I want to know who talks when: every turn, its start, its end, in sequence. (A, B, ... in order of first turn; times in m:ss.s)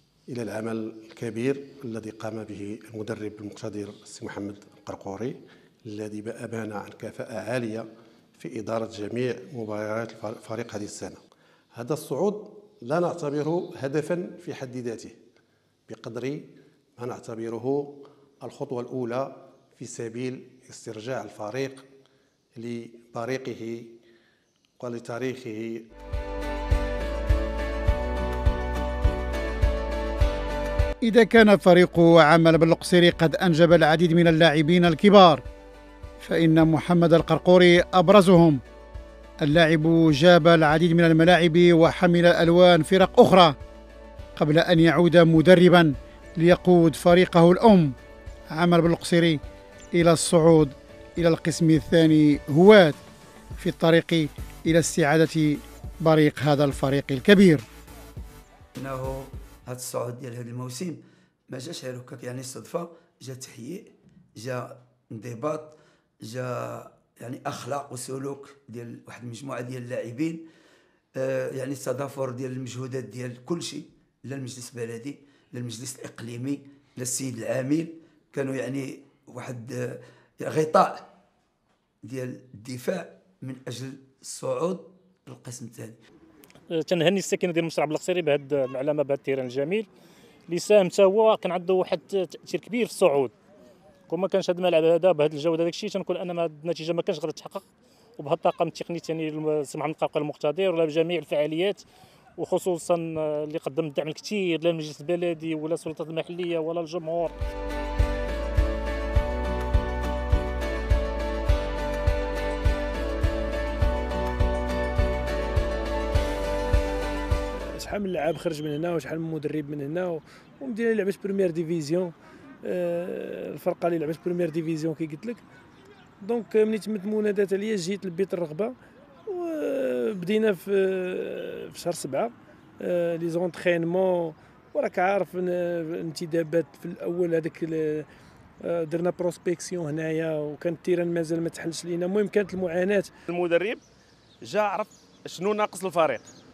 0:00.3-0:11.2 A
0:11.7-0:15.2 A
0:15.9-0:21.9 A
0:22.5-0:23.9 A
0:24.8-0:25.9 A
0:31.0-0:35.4 B
0:36.2-0:38.6 B
0:39.4-0:43.6 B
0:44.4-0:47.9 B
0:48.5-0:49.4 B
0:49.9-0:53.0 B
0:53.6-0:57.6 B
0:58.8-1:10.4 C
1:11.2-1:21.1 C
1:22.0-1:26.0 C
1:26.7-1:29.9 D
1:30.5-1:33.3 D
1:34.1-1:37.7 D
1:38.2-1:41.8 D
1:42.4-1:47.4 D
1:57.5-2:02.1 E
2:02.6-2:05.4 E
2:06.2-2:08.7 E
2:09.2-2:18.1 E
2:18.6-2:23.1 E
2:23.3-2:23.8 F
2:24.4-2:26.3 F